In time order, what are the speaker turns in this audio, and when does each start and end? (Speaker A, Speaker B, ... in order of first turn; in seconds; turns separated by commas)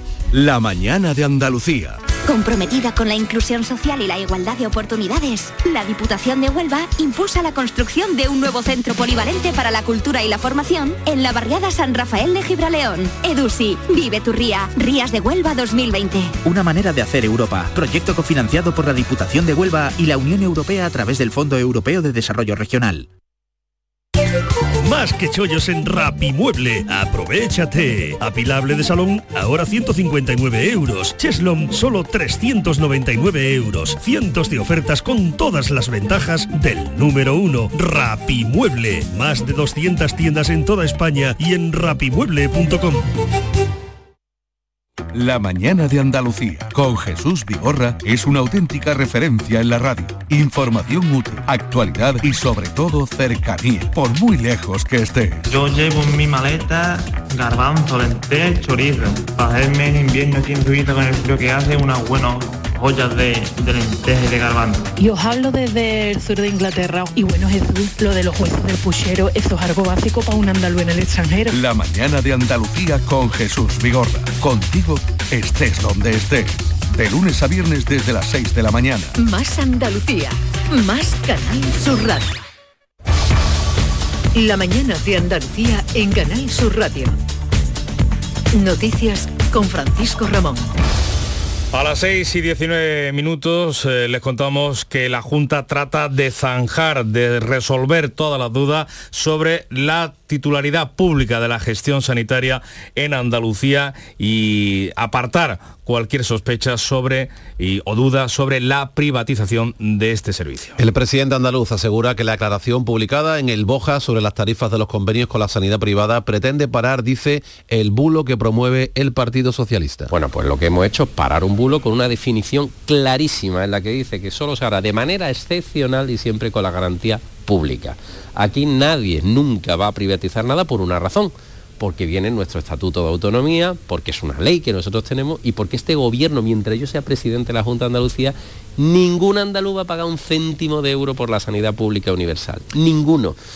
Speaker A: 0.3-2.0, Speaker B: 2.2-16.3, Speaker C: 16.4-23.1, Speaker D: 24.8-43.0, Speaker A: 45.1-55.4, Speaker E: 55.5-64.9, Speaker F: 65.0-71.5, Speaker A: 71.5-79.1, Speaker G: 79.2-82.4, Speaker G: 84.3-87.2, Speaker G: 88.5-90.7, Speaker H: 91.7-110.8, Speaker I: 110.8-120.1, Speaker J: 120.1-143.3